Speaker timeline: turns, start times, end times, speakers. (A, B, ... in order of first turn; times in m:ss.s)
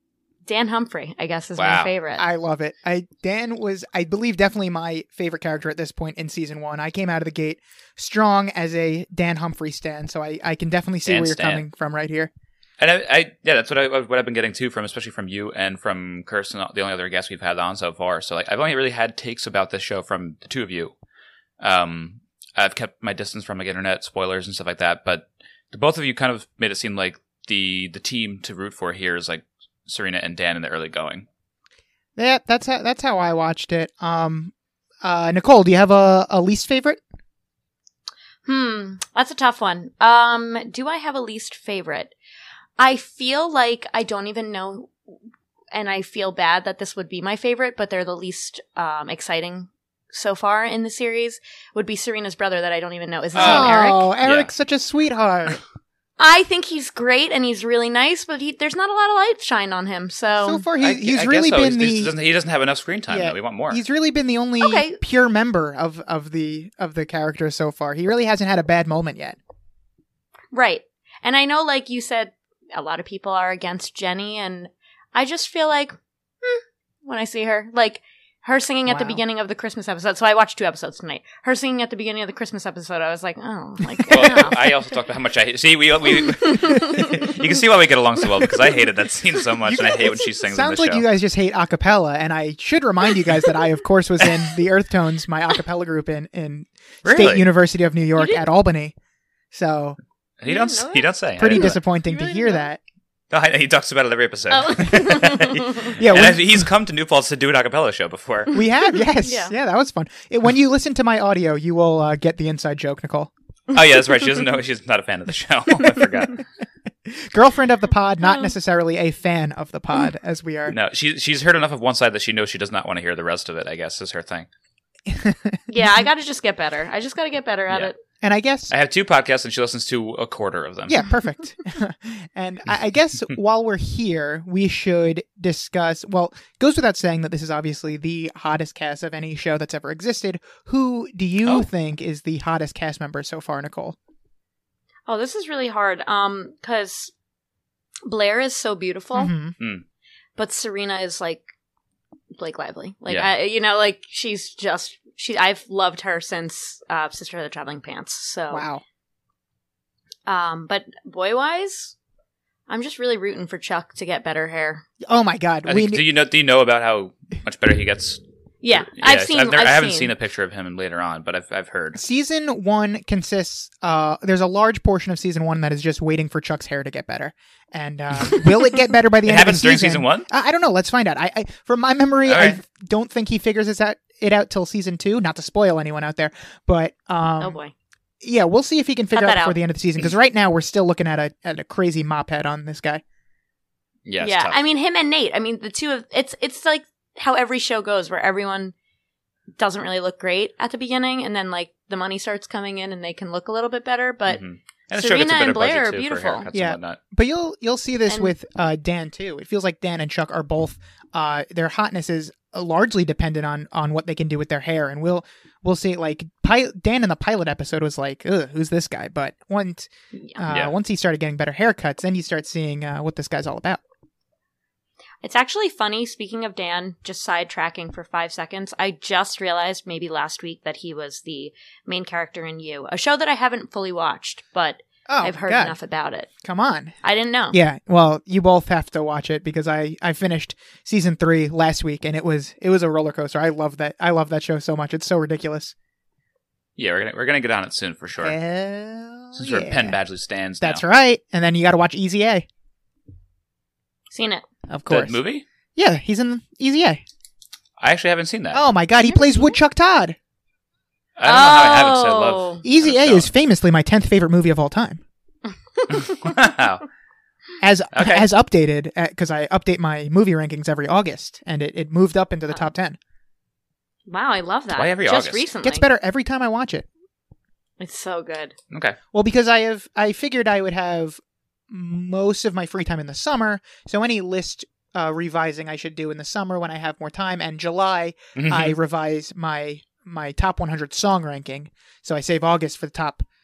0:00.5-0:02.2 A
0:01.6-0:01.9 B
0:02.2-0:12.3 C
0:11.0-0:11.6 B
0:12.8-0:21.0 B
0:21.6-0:31.3 B
0:32.2-0:37.0 C
0:38.4-0:42.2 A
0:42.8-0:45.2 A
0:45.7-0:54.1 A
0:53.4-0:54.5 B
0:53.4-0:55.6 C
0:56.2-1:00.6 A
1:00.4-1:02.1 C
1:00.8-1:03.8 B
1:03.1-1:09.4 C
1:04.6-1:05.0 A
1:10.5-1:16.0 A
1:17.0-1:24.7 A
1:18.9-1:19.2 C
1:24.1-1:24.5 C
1:24.1-1:31.0 B
1:26.2-1:27.3 A
1:29.6-1:39.0 C
1:37.0-1:37.4 B
1:38.2-1:38.4 A
1:39.5-1:40.0 C
1:40.4-1:41.8 B
1:40.5-1:42.6 A
1:41.4-1:42.8 C
1:43.3-1:48.6 B
1:44.5-1:46.0 A
1:46.0-1:46.7 C
1:48.5-1:53.3 C
1:49.1-1:49.5 A
1:53.7-1:56.4 B
1:57.0-2:00.8 C
1:58.2-1:58.5 A
2:00.7-2:04.5 B
2:05.1-2:05.9 C
2:05.7-2:08.0 A
2:08.2-2:08.7 C
2:08.7-2:11.1 B
2:10.9-2:24.0 C
2:25.1-2:27.1 A
2:28.1-2:29.3 A
2:29.2-2:29.6 C
2:29.6-2:29.8 B
2:30.4-2:31.5 A
2:32.4-2:38.6 A
2:38.5-2:38.8 C
2:40.3-2:42.0 A
2:42.7-2:44.9 A
2:45.0-2:46.0 C
2:45.6-2:48.2 B
2:48.6-2:50.1 A
2:48.7-2:52.0 B
2:52.0-3:07.6 C
2:59.2-3:00.3 B
3:02.2-3:02.6 B
3:07.4-3:07.7 A
3:08.2-3:13.0 C
3:09.1-3:09.6 A
3:14.1-3:14.6 B
3:14.2-3:18.7 A
3:19.6-3:24.4 A
3:24.3-3:27.0 B
3:25.0-3:26.4 A
3:26.5-3:43.8 C
3:28.1-3:28.3 A
3:40.5-3:40.7 B
3:45.2-3:56.3 A
3:55.1-3:55.8 C
3:56.4-3:57.0 C
3:57.0-3:57.6 A
3:57.5-4:05.7 C
4:06.8-4:08.4 B
4:08.2-4:10.0 C
4:09.4-4:10.8 B
4:10.6-4:12.5 C
4:14.1-4:14.4 A
4:14.7-4:15.2 C
4:14.9-4:15.4 B
4:15.8-4:17.0 C
4:17.8-4:18.7 B
4:18.5-4:20.2 C
4:19.1-4:19.3 A
4:21.2-4:23.3 B
4:21.2-4:22.6 A
4:22.6-4:25.0 C
4:25.8-4:26.4 A
4:25.9-4:26.8 B
4:27.6-4:33.0 C
4:27.9-4:28.3 B
4:34.1-4:35.8 A
4:34.7-4:35.5 B
4:35.6-4:36.9 C
4:37.8-4:38.6 A
4:38.7-4:39.0 B
4:39.1-4:53.2 C
4:48.4-4:48.8 B